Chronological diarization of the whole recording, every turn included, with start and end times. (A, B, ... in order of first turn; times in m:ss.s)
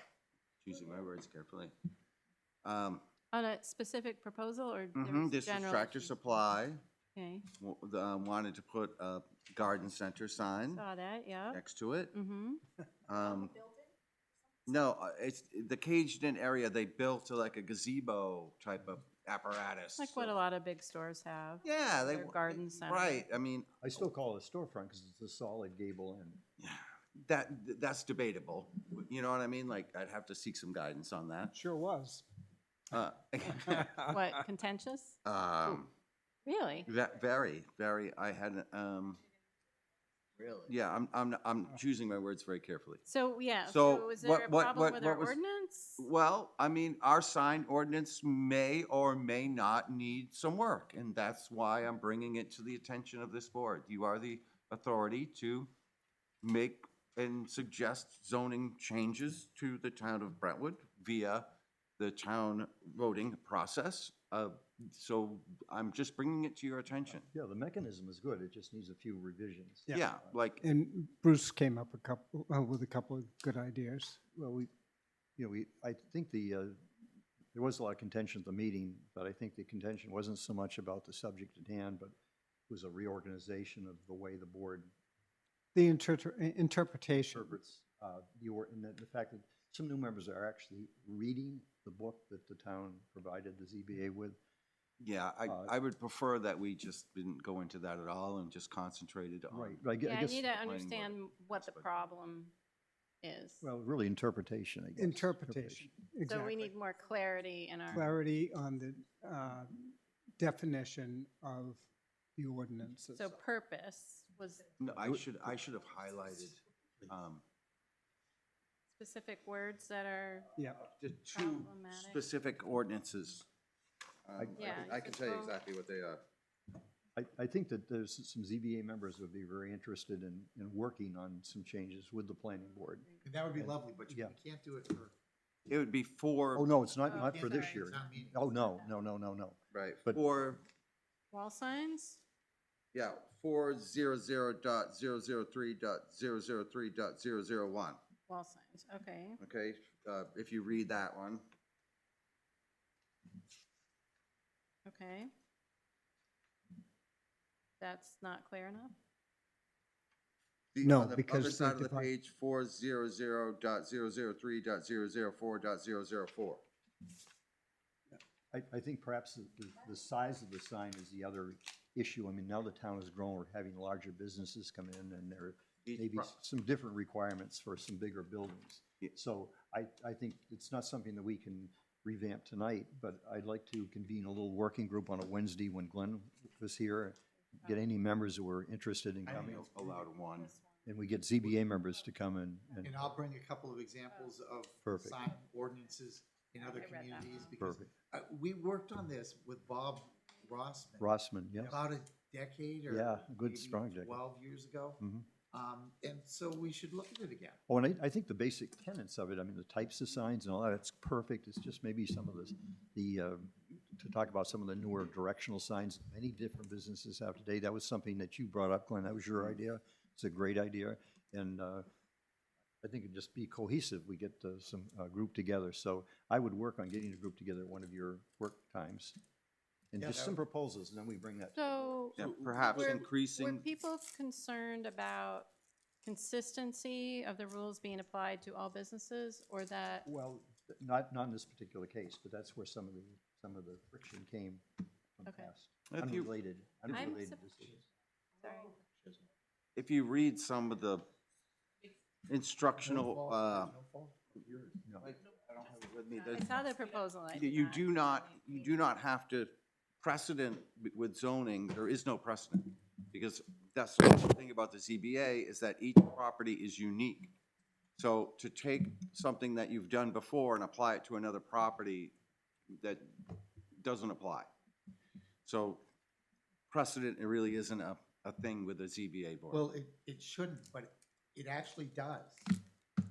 0:00.6-0:01.7 A
0:02.6-0:03.0 A
0:03.3-0:06.2 B
0:05.0-0:06.8 A
0:07.2-0:07.5 B
0:07.6-0:10.8 A
0:10.7-0:11.6 B
0:11.5-0:12.1 A
0:12.1-0:12.6 B
0:13.1-0:13.6 A
0:14.7-0:20.4 A
0:20.0-0:23.2 B
0:21.6-0:23.7 A
0:23.8-0:26.4 C
0:26.6-0:31.6 A
0:31.5-0:32.3 D
0:32.9-0:34.1 A
0:33.7-0:34.2 D
0:34.1-0:35.2 B
0:35.2-0:35.9 A
0:36.4-0:36.9 B
0:36.9-0:39.2 A
0:40.6-0:43.0 A
0:43.1-0:46.0 B
0:43.7-0:45.4 A
0:46.0-0:55.7 A
0:56.4-1:01.5 A
1:02.0-1:07.3 A
1:07.2-1:10.0 C
1:09.9-1:10.6 A
1:10.6-1:14.2 D
1:14.3-1:14.7 C
1:15.4-1:16.8 C
1:17.5-1:22.2 C
1:22.7-1:24.9 C
1:25.8-1:27.5 D
1:27.1-1:34.4 C
1:35.0-1:39.8 A
1:35.5-1:35.7 C
1:39.5-1:40.5 C
1:40.0-1:42.5 B
1:40.5-1:41.9 A
1:43.2-1:43.6 B
1:43.6-1:45.9 C
1:45.0-1:46.7 D
1:46.3-1:48.1 B
1:47.9-1:53.4 D
1:53.2-1:54.7 B
1:54.8-1:57.4 A
1:59.0-2:00.5 B
2:00.8-2:03.4 A
2:01.4-2:02.3 B
2:04.3-2:06.2 A
2:04.4-2:05.0 C
2:04.6-2:05.5 B
2:07.2-2:14.4 C
2:13.2-2:15.1 E
2:15.7-2:16.7 A
2:16.6-2:20.2 C
2:17.1-2:17.9 B
2:17.1-2:18.5 E
2:19.7-2:20.6 A
2:21.3-2:22.2 B
2:22.9-2:28.0 A
2:28.3-2:29.4 B
2:29.4-2:31.4 A
2:34.9-2:35.3 B
2:37.8-2:38.9 B
2:40.7-2:46.6 A
2:40.8-2:42.1 D
2:48.5-3:09.7 C
2:55.8-2:56.3 A
3:09.2-3:10.1 E
3:09.4-3:10.5 A
3:09.9-3:10.7 B
3:10.9-3:13.1 C
3:12.8-3:27.6 E
3:14.8-3:15.2 C
3:16.6-3:17.5 B
3:17.6-3:17.9 C
3:21.0-3:21.8 C
3:22.9-3:24.2 C
3:25.0-3:25.3 C
3:27.7-3:41.8 C
3:42.8-3:49.2 C
3:49.9-3:53.0 C
3:50.0-3:50.4 E
3:51.6-3:55.5 B
3:52.2-3:53.6 A
3:56.0-4:00.1 B
4:00.1-4:04.6 C
4:05.2-4:07.8 C
4:05.3-4:05.5 B
4:05.9-4:06.3 A
4:06.9-4:07.4 B
4:08.4-4:08.7 B
4:08.4-4:09.3 E
4:09.8-4:11.1 A
4:12.3-4:13.7 A
4:12.8-4:14.8 E
4:14.8-4:15.1 C
4:15.0-4:27.3 A
4:16.3-4:18.0 B
4:28.0-4:32.2 A
4:32.8-4:34.5 A
4:35.4-4:35.8 A
4:36.7-4:39.6 A
4:39.5-4:42.6 E